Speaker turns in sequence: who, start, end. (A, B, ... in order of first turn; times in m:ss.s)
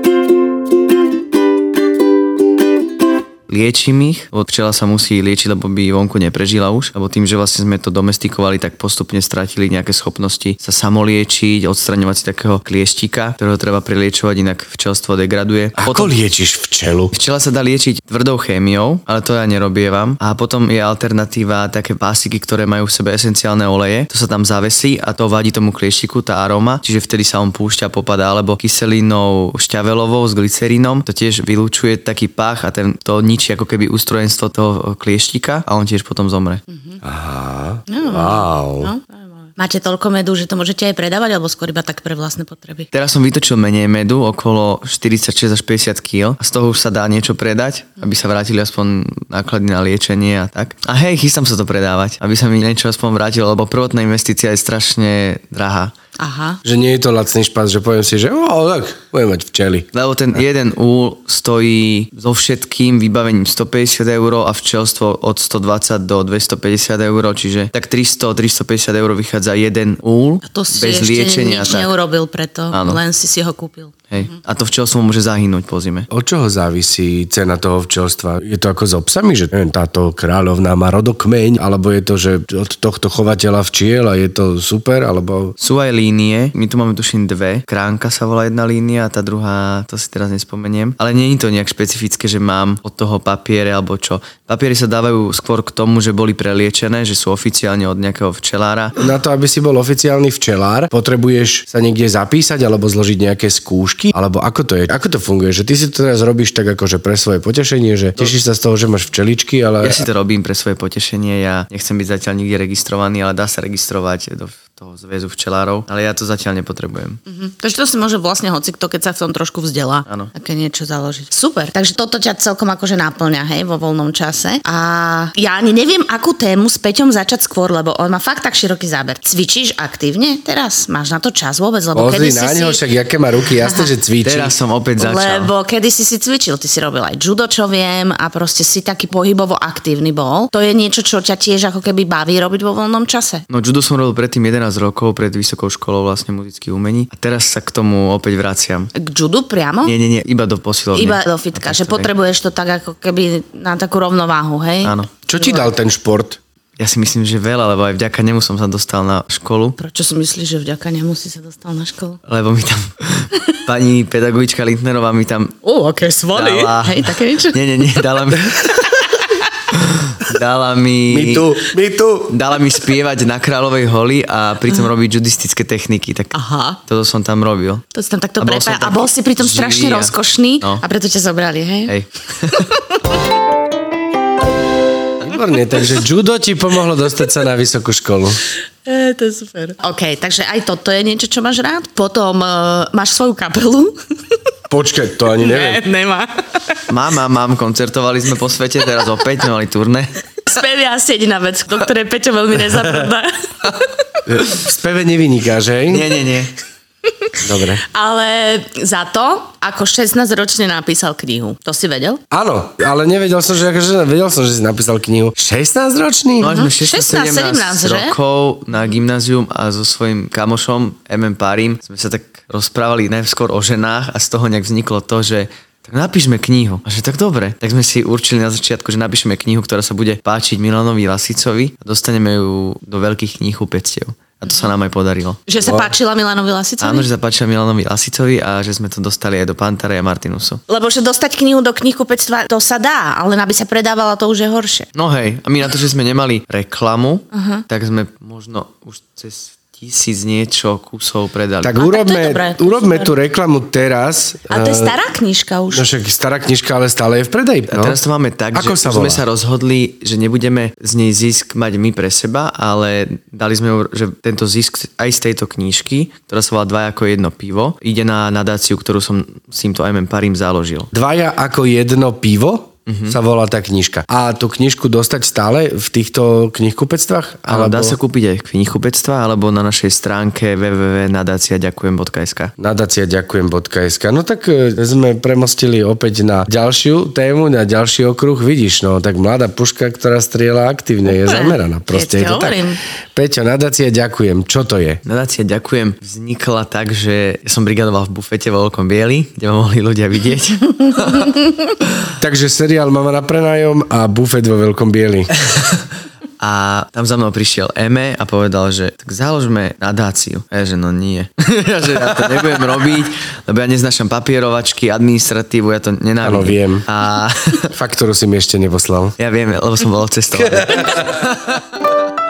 0:03.5-0:16.1 A
0:15.8-0:17.1 B
0:17.1-0:36.6 A
0:37.0-0:38.9 B
0:37.9-0:42.9 C
0:42.9-0:55.9 A
0:56.2-0:56.6 C
0:56.6-0:59.9 B
0:59.9-1:11.9 A
1:10.4-1:14.0 C
1:12.7-1:13.0 A
1:14.1-1:16.1 A
1:16.1-1:25.5 B
1:25.6-1:39.0 A
1:39.0-1:50.0 B
1:49.8-1:57.2 A
1:57.3-2:12.8 C
2:00.1-2:00.3 A
2:11.9-2:14.5 B
2:13.6-2:13.9 C
2:14.2-2:15.5 A
2:15.0-2:23.4 C
2:23.5-2:28.9 A
2:28.9-2:29.9 C
2:29.8-2:32.1 A
2:30.9-2:35.7 C
2:34.8-2:35.1 A
2:35.3-2:36.4 B
2:36.8-2:39.8 A
2:39.8-2:42.2 C
2:42.3-2:45.6 A
2:45.6-2:47.6 C
2:46.3-2:48.9 A
2:49.7-2:51.5 A
2:51.1-2:52.4 B
2:52.3-2:57.8 A
2:56.3-2:56.8 C
2:57.9-3:01.9 C
2:58.4-3:00.8 A
3:01.9-3:02.7 A
3:02.5-3:03.0 C
3:05.2-3:08.4 B
3:08.8-3:14.0 C
3:14.7-3:15.8 B
3:15.4-3:16.8 C
3:16.9-3:20.1 A
3:20.4-3:23.8 C
3:24.3-3:26.1 B
3:25.9-3:26.5 A
3:27.4-3:27.8 B
3:27.8-3:32.2 C
3:32.3-3:36.6 B
3:36.4-3:55.5 A
3:36.4-3:38.2 C
3:55.5-3:57.1 C
3:56.8-4:00.6 A
4:00.7-4:04.9 C
4:04.9-4:11.7 A
4:07.3-4:07.6 C
4:11.6-4:14.9 B
4:11.8-4:13.1 C
4:14.5-4:15.8 C
4:15.7-4:18.0 B
4:17.7-4:30.9 A
4:18.5-4:19.2 B
4:30.9-4:38.0 B
4:32.9-4:33.2 A
4:37.5-4:42.5 A
4:42.6-4:55.0 B
4:51.1-4:52.8 C
4:55.0-5:01.4 A
5:02.2-5:05.3 B
5:06.4-5:17.7 A
5:16.2-5:16.8 B
5:17.7-5:19.1 B
5:19.2-5:21.6 A
5:20.4-5:21.3 B